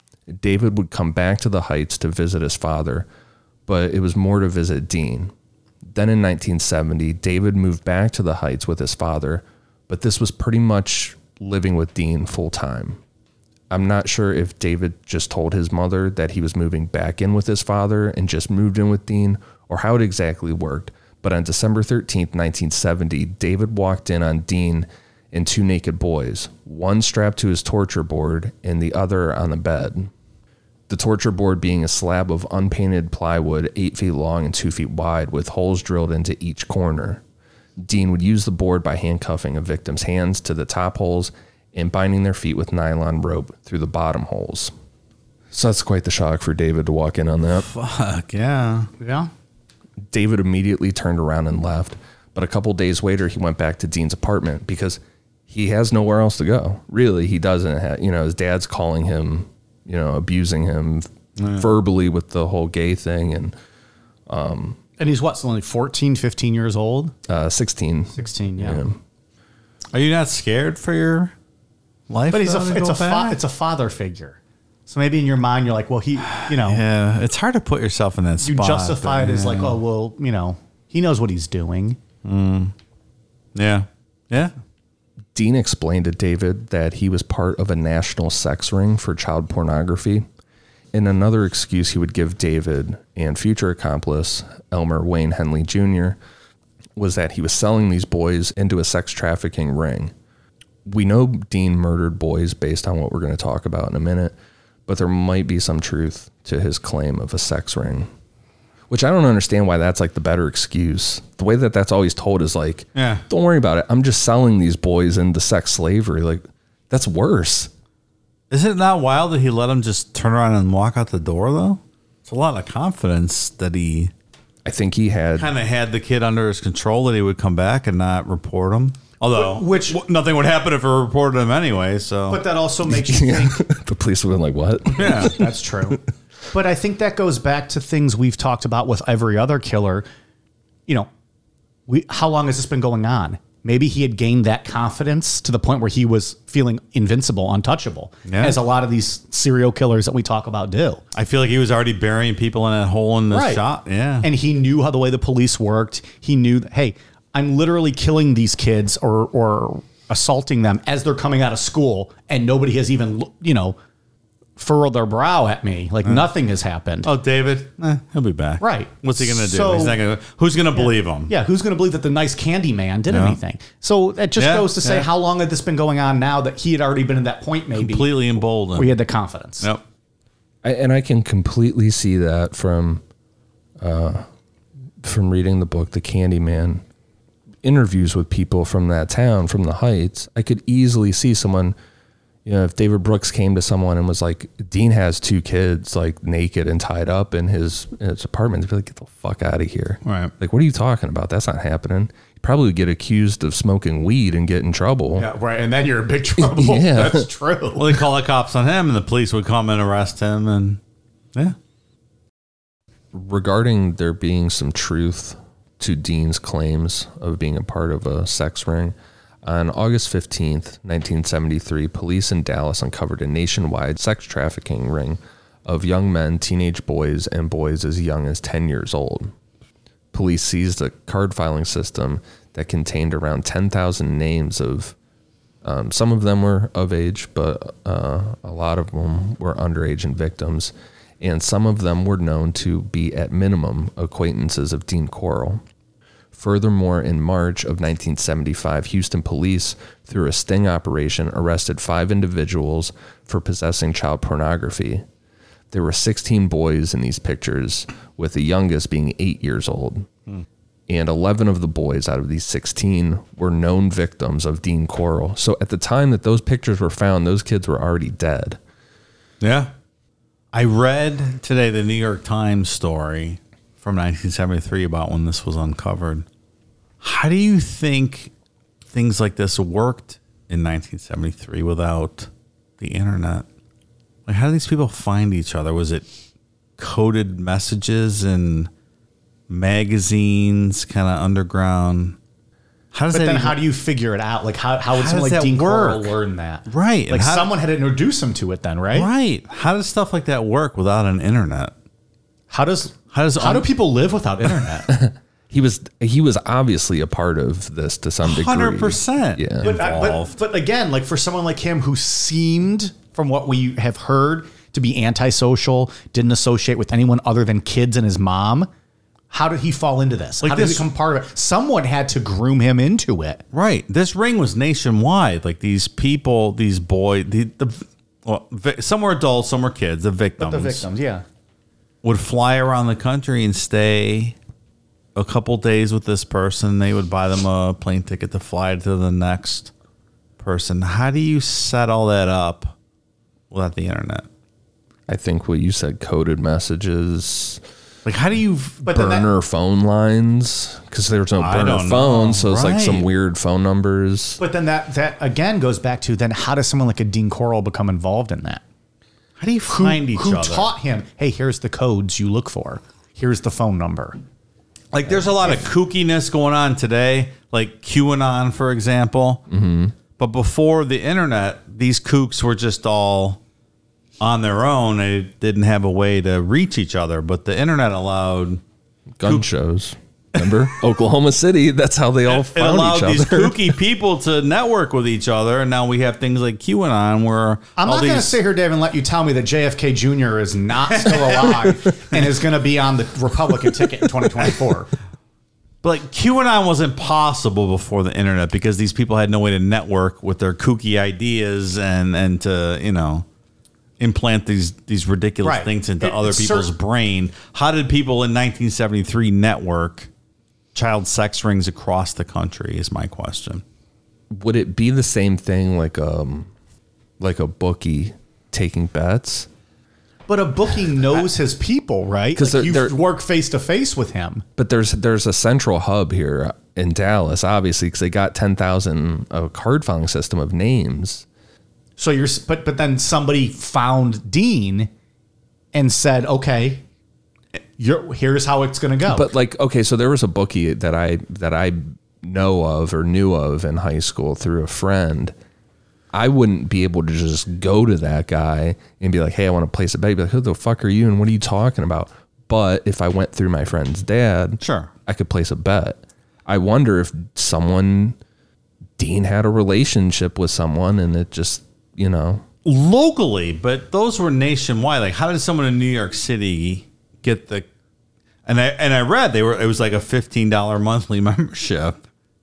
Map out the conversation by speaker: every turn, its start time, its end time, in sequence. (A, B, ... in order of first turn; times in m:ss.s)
0:00.3-0:03.1 A
0:03.7-0:05.3 A
0:05.8-0:13.0 A
0:13.7-0:30.1 A
0:30.9-0:37.2 A
0:37.8-0:44.7 A
0:45.5-0:47.7 A
0:47.6-0:48.9 B
0:49.0-0:49.3 C
0:50.1-1:03.5 A
1:01.4-1:01.7 B
1:04.3-1:04.8 A
1:05.0-1:07.1 C
1:07.3-1:09.0 A
1:08.1-1:08.8 C
1:09.9-1:11.3 B
1:12.1-1:13.4 B
1:12.3-1:16.8 C
1:16.4-1:19.8 B
1:18.4-1:22.0 C
1:22.2-1:22.7 B
1:23.5-1:24.5 B
1:25.3-1:30.2 A
1:30.9-1:36.2 A
1:37.0-1:40.1 A
1:40.8-1:44.3 A
1:44.8-1:48.1 A
1:48.9-1:57.7 A
1:52.9-1:53.2 B
1:58.5-2:04.1 B
2:04.6-2:05.5 A
2:05.4-2:12.4 B
2:09.3-2:10.0 C
2:12.3-2:13.6 C
2:12.9-2:15.4 A
2:15.0-2:15.4 B
2:15.0-2:20.0 C
2:21.9-2:31.0 C
2:28.2-2:28.6 B
2:31.1-2:34.3 B
2:33.3-2:33.6 C
2:34.2-2:43.8 C
2:44.6-2:47.1 C
2:47.0-2:51.3 B
2:48.6-2:50.0 C
2:50.7-2:58.2 C
2:53.1-2:53.4 B
2:54.4-2:55.1 B
2:57.7-2:59.0 B
2:58.7-2:59.7 C
3:00.6-3:03.0 A
3:03.8-3:04.2 A
3:05.0-3:06.8 A
3:07.6-3:11.7 A
3:12.4-3:25.3 A
3:20.0-3:20.3 B
3:25.2-3:27.8 C
3:26.4-3:27.3 A
3:27.8-3:30.8 B
3:33.1-3:49.3 A
3:50.1-3:55.0 A
3:55.6-4:05.6 A
4:06.3-4:15.0 A
4:15.7-4:20.1 A
4:20.9-4:28.6 A
4:29.4-4:29.7 B
4:30.5-4:36.2 B
4:37.0-4:38.3 B
4:38.9-4:42.3 B
4:42.8-4:43.4 B
4:44.3-4:46.1 B
4:46.8-4:48.7 B
4:49.5-4:52.2 B
4:52.9-4:53.6 B
4:53.1-4:59.1 C
4:54.9-4:56.1 B
4:56.7-4:57.5 B
4:58.9-5:01.7 B
5:02.5-5:04.9 C
5:03.1-5:03.7 B
5:04.9-5:09.7 A
5:08.2-5:10.4 B
5:09.6-5:18.7 C
5:19.3-5:23.4 C
5:20.4-5:20.8 B
5:23.5-5:30.8 B
5:30.4-5:31.2 C
5:32.0-5:34.4 B
5:35.2-5:39.7 B
5:40.4-5:42.7 B
5:43.5-5:44.2 B
5:45.1-5:47.6 A
5:48.0-5:48.8 B
5:48.8-5:49.3 C
5:48.9-5:54.4 A
5:51.4-5:53.1 B
5:54.4-5:58.6 C
5:59.4-6:00.7 B
5:59.7-6:04.2 C
6:04.9-6:09.4 B
6:09.5-6:10.0 A
6:10.2-6:13.4 B
6:14.2-6:18.6 B
6:19.2-6:23.7 A
6:22.3-6:28.4 B
6:27.8-6:34.9 C
6:30.9-6:31.8 B
6:35.8-6:43.2 B
6:44.0-6:50.1 B
6:45.4-6:46.7 C
6:50.7-6:53.6 B
6:54.3-6:56.5 A
6:57.2-6:59.5 A
7:00.3-7:04.4 C
7:02.3-7:03.0 A
7:04.6-7:11.2 A
7:12.0-7:14.9 C
7:15.7-7:16.8 C
7:17.8-7:19.3 C
7:19.1-7:25.3 A
7:26.1-7:38.2 A
7:34.6-7:34.9 B
7:39.0-7:42.4 A
7:42.6-7:47.6 B
7:48.4-7:52.0 B